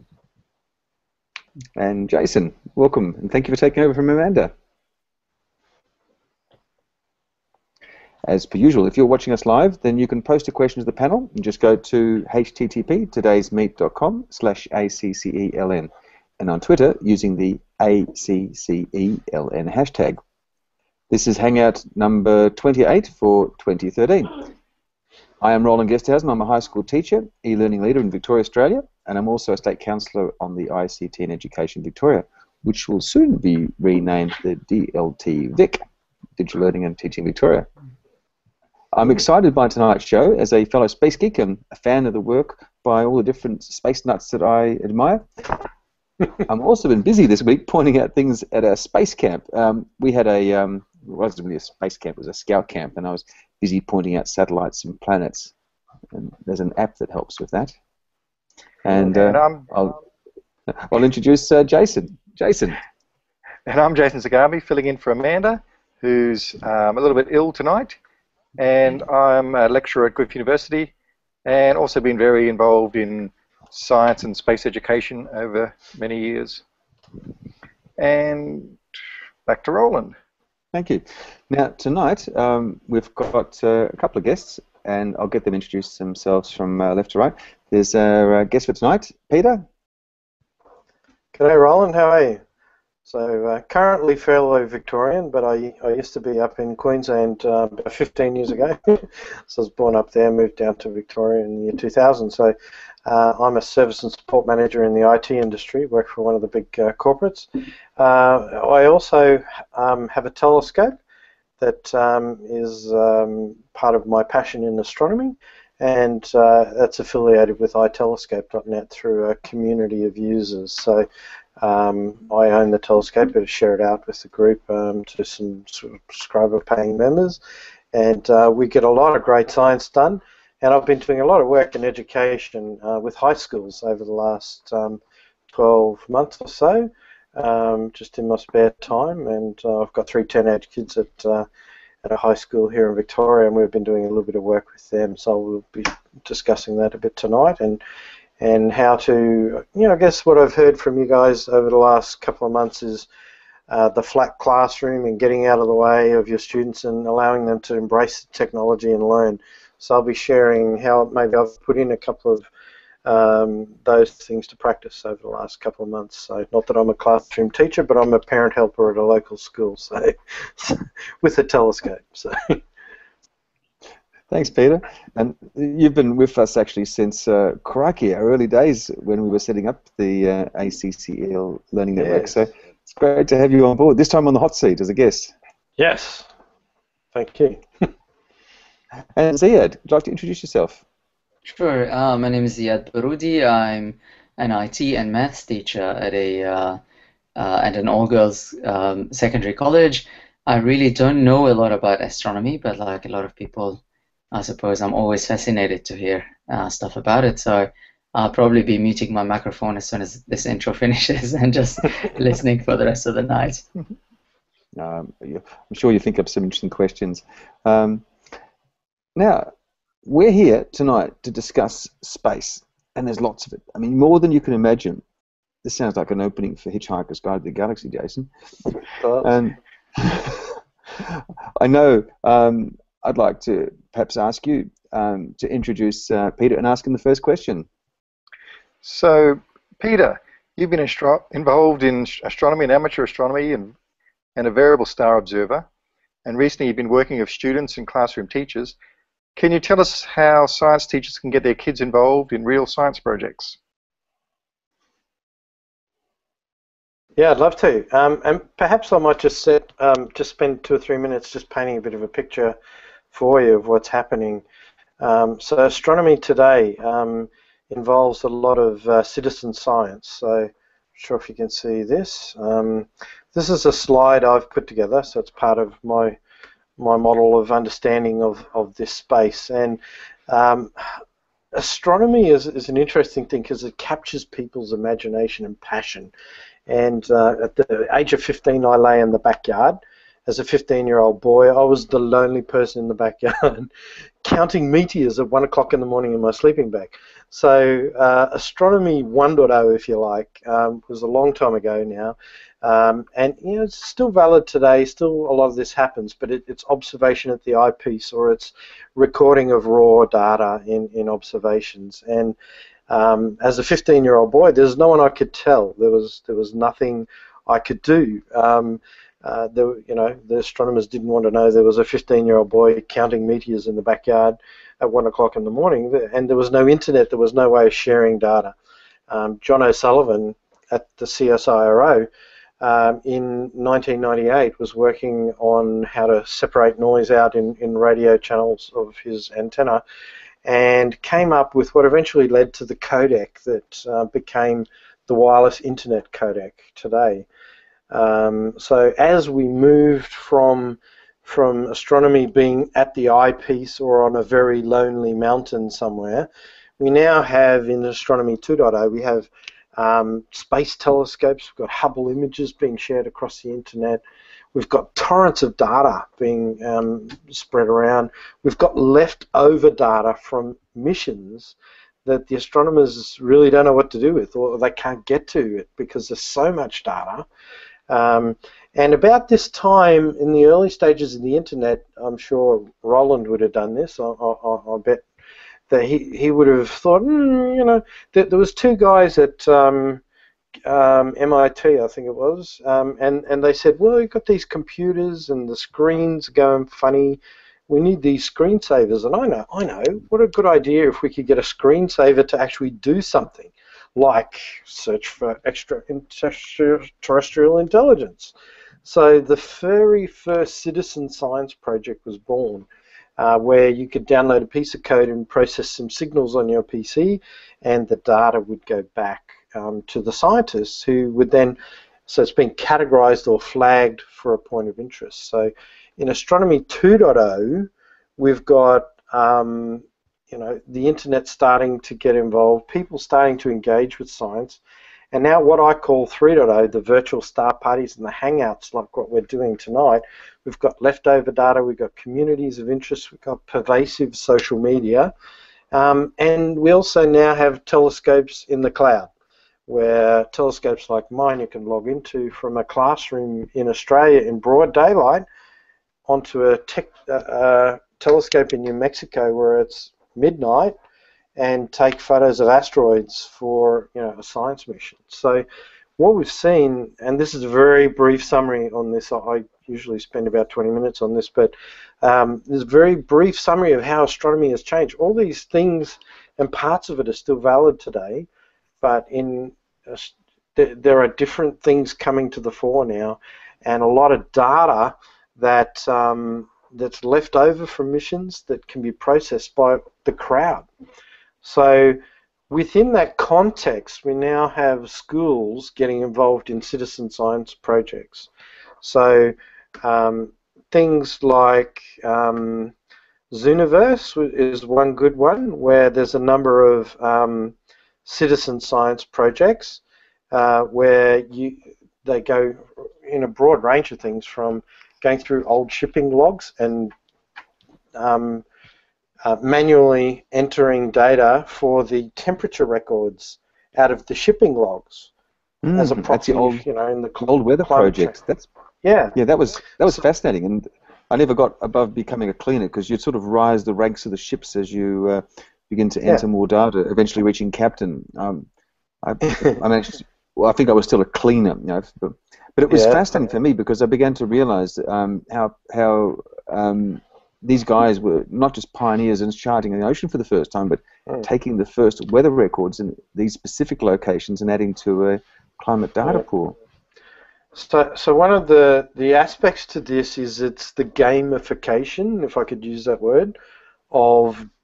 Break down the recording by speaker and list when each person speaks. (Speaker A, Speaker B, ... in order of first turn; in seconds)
Speaker A: 1.8-4.5, 8.2-20.2, 21.1-24.4, 25.4-35.8, 36.4-37.7, 38.9-45.5, 46.5-55.5, 56.1-57.8, 58.9-59.9, 60.7-62.8, 80.7-89.7, 174.3-185.3, 189.2-190.8, 214.8-218.1, 219.2-219.5, 220.1-225.0, 225.6-228.3, 229.2-237.7, 525.6-526.7, 527.2-528.5, 529.1-538.5, 539.0-556.6
Speaker B: 58.9-59.7, 63.7-68.0, 68.6-70.9, 71.5-76.6, 78.0-78.8, 79.5-80.1, 238.8-243.7, 244.4-245.7, 246.2-248.8, 249.4-253.6
Speaker C: 91.3-92.4, 93.0-102.5, 103.1-111.0, 111.6-121.1, 121.6-127.4, 127.9-135.0, 135.5-141.5, 142.0-147.8, 148.4-153.1, 153.7-162.5, 163.1-172.6, 182.0-182.3, 185.8-186.3, 187.1-187.9, 229.0-229.3, 257.2-262.6, 263.1-264.4, 265.0-276.2, 276.8-281.0, 281.6-286.1, 286.7-293.7, 294.2-312.4, 312.9-328.6, 329.1-332.1, 332.6-339.8, 340.4-347.3, 347.9-356.3, 356.8-364.0, 364.5-377.3, 377.9-385.1, 385.7-390.0, 390.7-408.3, 408.8-412.7, 413.2-445.1, 445.7-449.1, 449.7-455.2, 456.1-460.8, 461.4-465.4, 466.0-478.3, 478.8-490.7, 491.4-492.0, 492.5-498.3, 498.8-502.7, 503.3-507.5, 508.1-516.9, 518.0-518.5, 519.2-525.1, 525.8-528.2, 528.8-529.2, 539.2-539.6, 542.7-543.3, 557.5-563.4, 563.9-564.5
Speaker D: 191.5-196.8, 197.4-203.8, 204.3-213.6